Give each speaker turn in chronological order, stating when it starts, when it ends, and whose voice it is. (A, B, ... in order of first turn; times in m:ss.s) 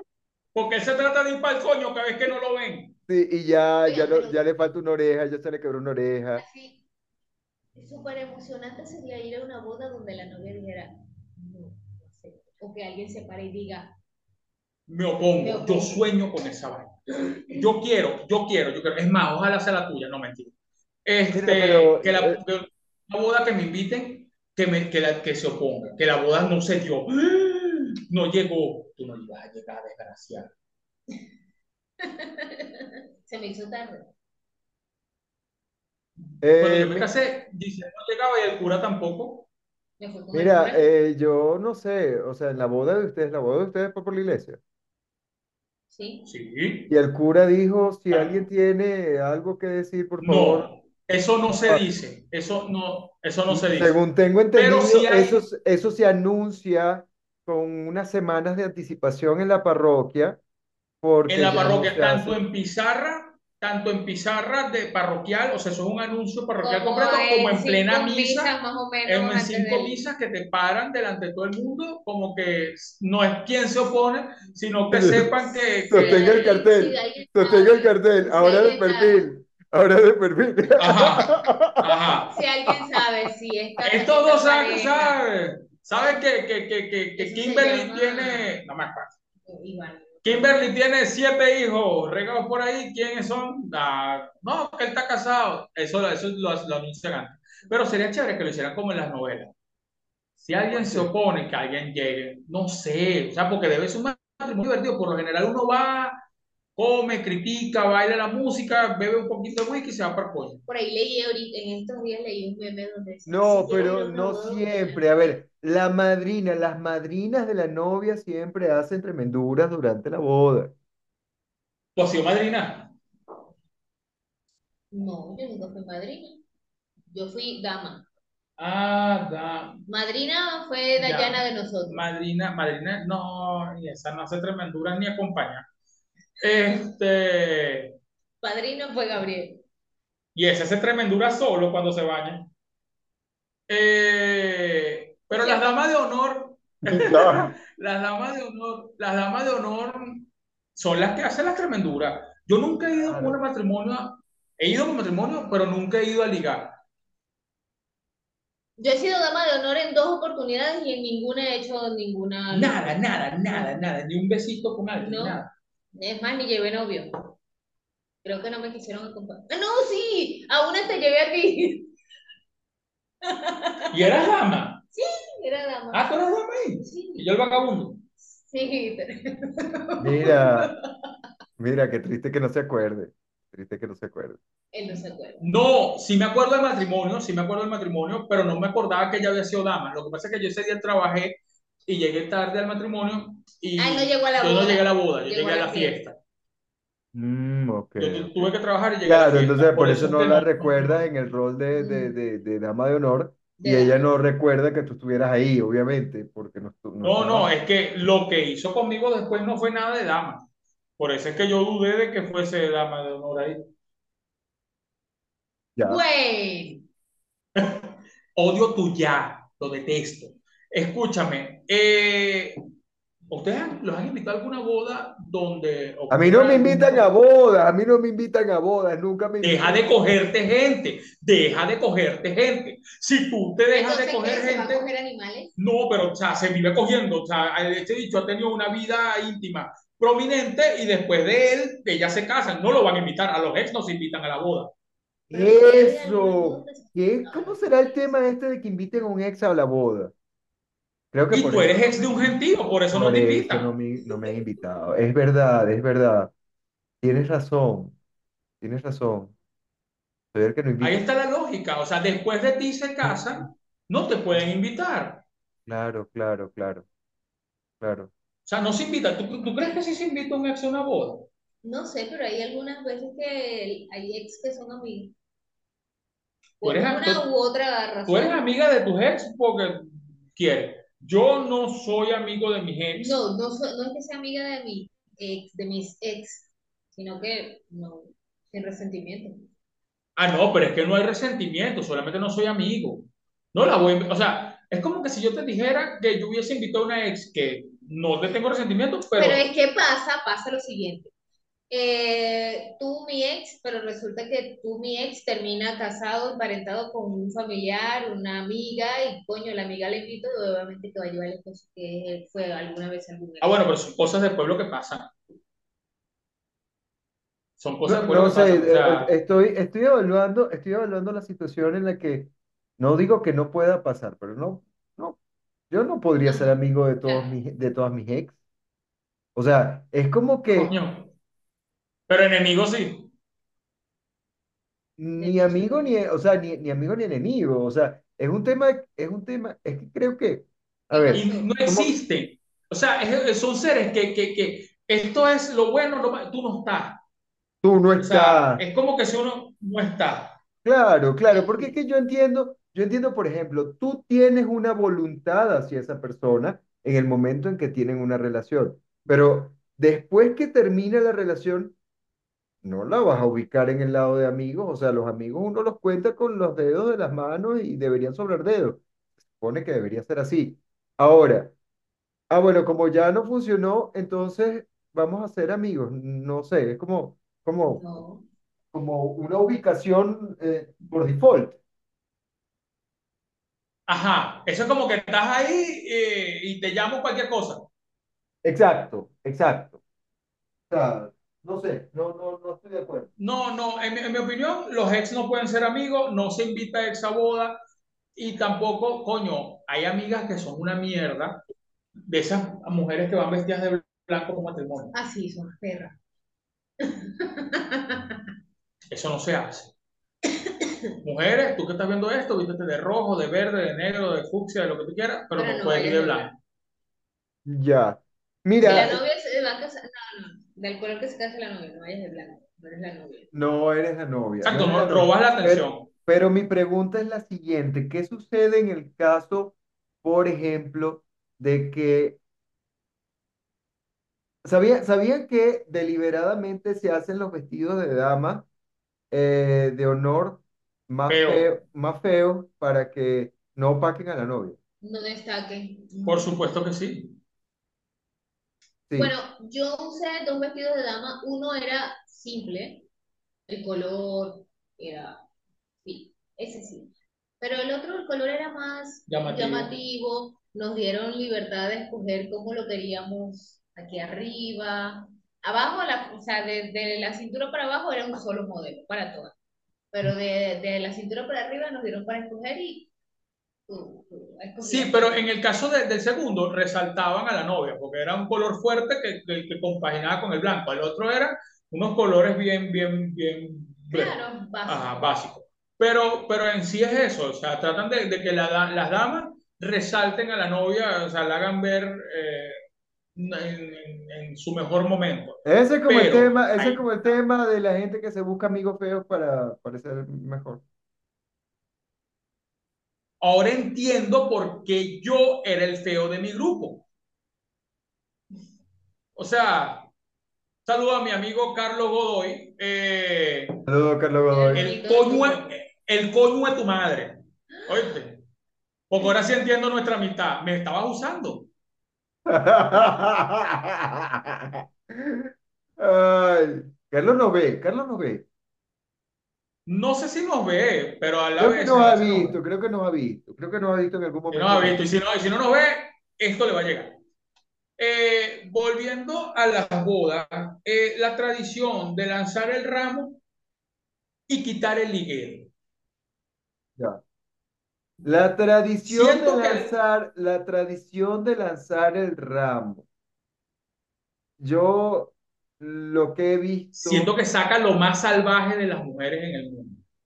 0:00.5-0:03.0 A
0:03.1-0:06.4 B
0:03.8-0:04.4 C
0:06.4-0:06.8 C
0:07.8-0:13.9 C
0:14.9-0:17.0 A
0:15.4-0:16.0 C
0:17.2-0:17.6 C
0:17.5-0:20.5 A
0:21.0-0:30.5 A
0:21.3-0:22.4 B
0:32.0-0:34.1 C
0:36.4-0:37.1 B
0:36.6-0:39.5 A
0:40.0-0:40.9 C
0:40.3-0:44.6 B
0:45.9-0:46.2 C
0:46.2-0:46.9 A
0:46.9-0:50.7 B
0:48.1-0:48.4 A
0:50.2-0:54.0 A
0:53.5-1:00.4 B
0:54.5-0:55.4 A
1:01.0-1:02.4 B
1:01.3-1:08.5 A
1:06.6-1:10.0 C
1:09.0-1:16.5 A
1:14.9-1:15.3 B
1:15.5-1:19.3 C
1:15.9-1:22.0 B
1:20.8-1:22.3 A
1:22.3-1:25.2 C
1:23.8-1:29.1 A
1:27.2-1:28.5 C
1:29.5-1:30.6 C
1:30.2-1:39.5 A
1:40.4-1:46.2 A
1:40.7-1:41.1 B
1:46.8-1:50.6 A
1:50.7-1:55.4 C
1:53.3-2:00.7 B
2:02.0-2:02.9 A
2:04.9-2:06.4 C
2:07.1-2:08.0 C
2:08.6-2:09.8 A
2:09.9-2:12.0 C
2:11.0-2:15.6 A
2:16.4-2:17.9 A
2:18.4-2:19.6 C
2:20.3-2:22.5 A
2:23.7-2:36.8 A
2:25.3-2:25.7 C
2:26.8-2:27.5 B
2:32.9-2:33.4 B
2:38.8-2:43.7 C
2:42.5-2:45.5 A
2:45.0-2:45.4 C
2:45.9-2:47.3 C
2:48.2-2:51.9 C
2:53.2-2:54.0 C
2:53.9-2:54.8 A
2:54.9-2:56.1 C
2:55.9-2:58.0 A
2:56.8-2:57.3 C
2:58.5-3:00.9 C
3:00.0-3:00.7 B
3:01.6-3:04.4 B
3:04.7-3:05.4 C
3:05.4-3:16.2 A
3:13.8-3:16.0 C
3:17.1-3:18.5 B
3:18.0-3:21.0 A
3:19.0-3:27.5 B
3:21.7-3:22.2 C
3:23.6-3:24.1 C
3:27.0-3:30.4 A
3:31.0-3:33.7 A
3:35.8-3:36.0 B
3:35.8-3:36.8 C
3:37.6-3:42.6 A
3:43.3-3:47.1 A
3:46.1-3:49.8 B
3:49.4-3:54.8 A
3:53.7-3:55.5 C
3:55.6-4:04.7 A
4:05.3-4:10.1 B
4:05.3-4:08.2 C
4:11.1-4:12.3 B
4:11.3-4:13.7 A
4:12.9-4:16.3 B
4:17.0-4:18.0 B
4:18.6-4:19.3 B
4:20.3-4:21.0 B
4:20.8-4:25.2 A
4:25.7-4:26.8 B
4:27.8-4:28.1 B
4:28.4-4:31.3 A
4:31.6-4:35.1 C
4:36.6-4:38.4 C
4:36.6-4:37.2 A
4:38.1-4:43.2 A
4:43.0-4:49.4 C
4:50.2-4:59.4 A
4:59.2-5:01.1 C
5:01.7-5:13.7 C
5:13.4-5:15.1 A
5:17.6-5:19.1 A
5:17.8-5:25.2 B
5:25.7-5:28.4 B
5:26.2-5:27.4 C
5:29.4-5:30.7 B
5:30.5-5:31.1 A
5:32.1-5:33.1 A
5:35.0-5:41.9 B
5:35.2-5:36.0 C
5:40.9-5:41.5 C
5:41.1-5:47.0 A
5:47.6-5:48.6 B
5:48.0-5:50.4 A
5:50.6-6:01.7 B
5:51.3-5:51.7 C
6:02.6-6:11.5 B
6:12.3-6:18.0 B
6:17.7-6:18.2 C
6:18.7-6:21.6 B
6:23.9-6:27.7 A
6:28.4-6:29.8 B
6:30.7-6:33.1 B
6:33.2-6:37.6 A
6:38.1-6:41.4 A
6:42.1-6:44.9 A
6:44.9-6:46.0 C
6:46.8-6:48.2 C
6:48.9-6:49.7 A
6:50.3-6:50.7 C
6:51.0-6:56.3 A
6:55.4-6:56.3 C
6:57.4-6:59.0 B
6:58.6-7:03.3 C
7:03.3-7:12.2 B
7:04.4-7:05.9 A
7:14.4-7:18.5 B
7:19.1-7:24.6 B
7:21.1-7:21.5 A
7:24.8-7:26.3 C
7:26.0-7:27.2 A
7:29.0-7:32.8 C
7:33.5-7:35.2 C
7:35.8-7:49.3 C
7:39.1-7:39.7 A
7:49.9-7:52.9 C
7:53.7-7:55.2 C
7:54.6-8:12.6 A
8:03.9-8:05.0 C
8:13.1-8:16.9 A
8:15.4-8:20.6 B
8:23.2-8:26.8 A
8:29.2-8:29.9 A
8:30.6-8:33.5 A
8:33.7-8:34.6 B
8:34.3-8:35.4 C
8:34.5-8:38.2 A
8:38.9-8:41.5 A
8:42.2-8:48.2 B
8:49.6-8:52.4 A
8:51.4-8:54.8 B
8:54.3-8:57.0 A
8:57.8-9:03.2 A
9:04.3-9:05.5 A
9:08.0-9:12.8 B
9:08.8-9:09.7 A
9:14.4-9:17.1 B
9:16.7-9:19.8 A